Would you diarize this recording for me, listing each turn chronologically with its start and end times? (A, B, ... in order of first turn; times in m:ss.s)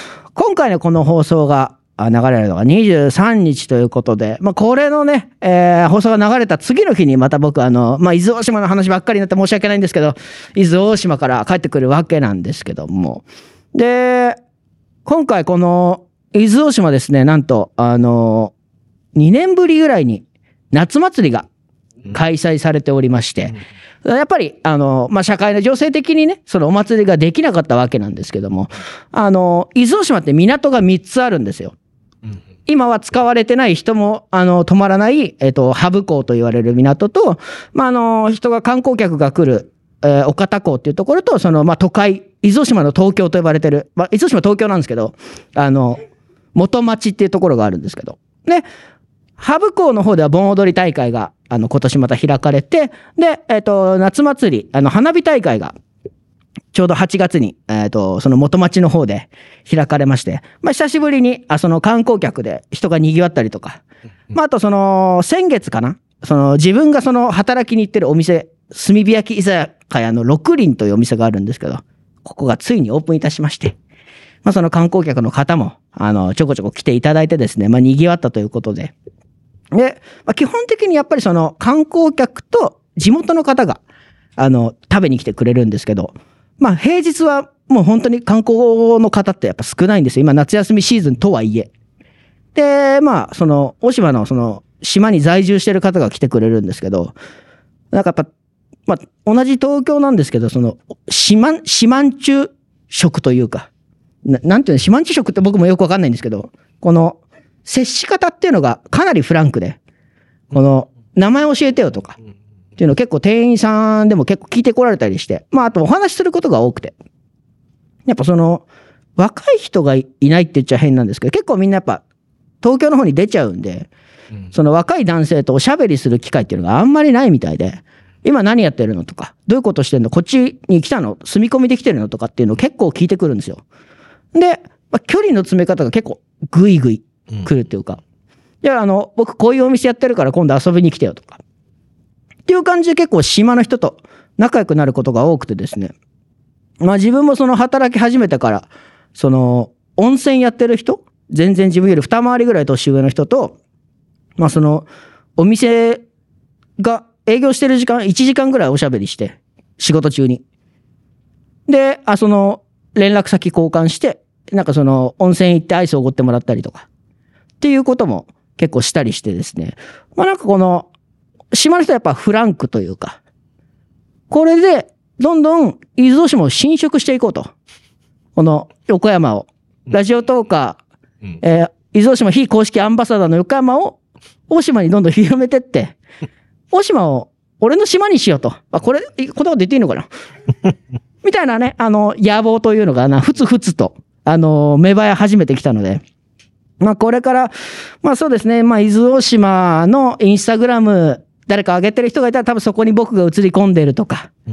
0:00.4-0:14.4 A
0:15.0-0:18.5 A
0:19.2-0:21.5 A
0:22.1-0:31.7 A
0:32.7-0:46.0 A
0:46.6-0:48.7 A
0:49.4-0:55.8 A
0:56.7-1:03.8 A
1:04.3-1:13.8 A
1:14.4-1:18.9 A
1:19.7-1:23.8 A
1:24.4-1:31.7 A
1:32.6-1:37.2 A
1:37.9-1:38.3 A
1:38.9-1:43.7 A
1:44.2-1:49.8 A
1:50.5-1:52.2 A
1:52.8-1:56.9 A
1:58.1-1:58.6 A
1:59.2-2:02.0 A
2:02.6-2:03.9 A
2:04.5-2:13.6 A
2:14.3-2:18.0 A
2:18.6-2:21.4 A
2:22.5-2:25.9 A
2:26.8-2:33.6 A
2:34.4-2:36.0 A
2:36.8-2:40.4 A
2:41.7-2:46.9 A
2:47.6-2:50.9 A
2:51.5-2:53.2 A
2:54.3-2:57.5 A
2:58.4-3:00.8 A
3:01.4-3:04.0 A
3:04.5-3:06.0 A
3:06.7-3:10.1 A
3:11.2-3:16.0 A
3:16.8-3:24.3 A